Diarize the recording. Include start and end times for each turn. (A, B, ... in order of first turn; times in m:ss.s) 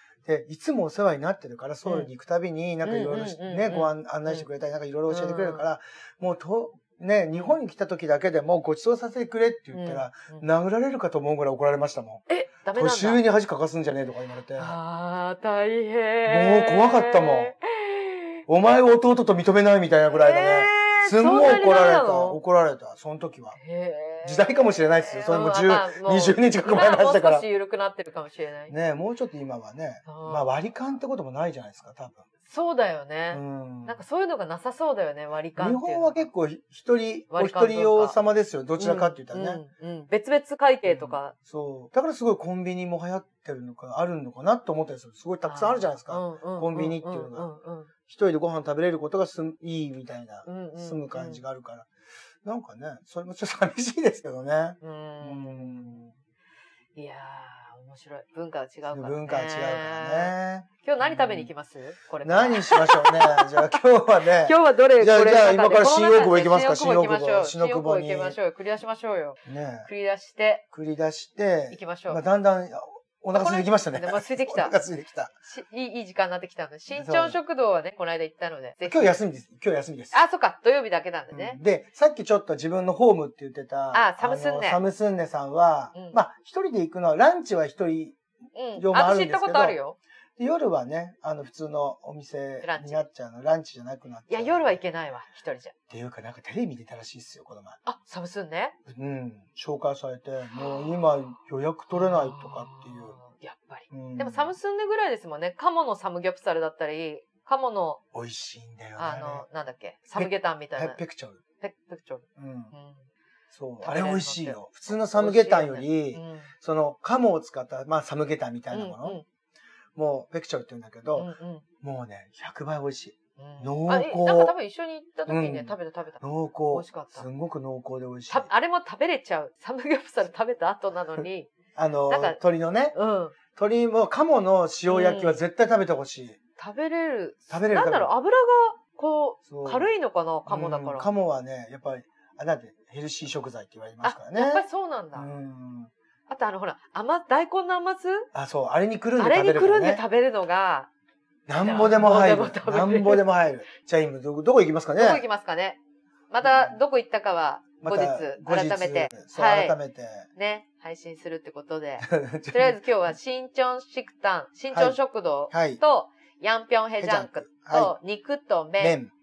0:00.2-0:14.8 A
0:01.8-0:02.1 B
0:02.8-0:04.5 B
0:05.1-0:05.6 B
0:09.7-0:10.5 B
0:12.3-0:13.2 B
0:14.6-0:18.4 B
0:16.2-0:17.5 A
0:18.5-0:23.6 A
0:20.1-0:22.4 B
0:23.5-0:28.7 B
0:24.2-0:27.4 A
0:28.7-0:32.2 A
0:30.0-0:30.5 B
0:32.5-0:36.3 B
0:33.3-0:34.0 A
0:35.6-0:39.6 A
0:37.3-0:38.2 B
0:38.8-0:41.3 B
0:40.8-0:47.5 A
0:45.4-0:47.9 B
0:48.1-0:51.9 A
0:50.4-0:51.4 B
0:52.4-0:56.1 A
0:54.8-0:56.0 B
0:57.0-1:03.8 B
0:58.9-1:01.5 A
1:02.2-1:08.4 A
1:04.4-1:10.6 B
1:09.4-1:09.9 A
1:10.7-1:15.3 A
1:11.7-1:12.2 B
1:13.3-1:14.8 B
1:15.4-1:19.2 B
1:16.9-1:17.4 A
1:18.8-1:20.1 A
1:20.1-1:21.6 B
1:21.3-1:28.2 A
1:23.9-1:24.8 B
1:28.5-1:30.0 B
1:28.8-1:29.8 A
1:30.4-1:34.8 A
1:32.6-1:33.0 B
1:34.3-1:35.7 B
1:35.9-1:37.8 A
1:37.8-1:38.8 B
1:38.9-1:43.2 A
1:40.5-1:41.0 B
1:41.9-1:48.0 B
1:43.9-1:44.5 A
1:48.1-1:49.4 A
1:49.0-1:51.0 B
1:50.2-1:51.4 A
1:51.6-1:53.0 B
1:52.4-1:52.7 A
1:53.5-1:59.2 A
1:53.8-1:56.5 B
1:58.7-1:59.2 B
2:00.0-2:01.3 A
2:01.2-2:01.6 B
2:01.8-2:04.6 A
2:03.4-2:07.2 B
2:05.3-2:08.5 A
2:08.3-2:11.5 B
2:11.8-2:13.0 A
2:12.1-2:12.4 B
2:12.9-2:13.3 B
2:13.5-2:16.4 A
2:14.9-2:15.4 B
2:16.6-2:21.1 B
2:17.5-2:18.1 A
2:19.5-2:19.9 A
2:20.5-2:25.9 A
2:24.0-2:25.3 B
2:26.3-2:28.3 B
2:28.3-2:30.0 A
2:29.2-2:30.9 B
2:31.5-2:35.2 A
2:31.6-2:33.3 B
2:35.0-2:35.8 B
2:36.3-2:39.8 B
2:36.4-2:36.8 A
2:37.8-2:40.2 A
2:40.4-2:49.0 B
2:42.0-2:42.8 A
2:44.7-2:45.0 A
2:45.5-2:45.8 A
2:47.0-2:47.9 A
2:48.8-2:49.1 A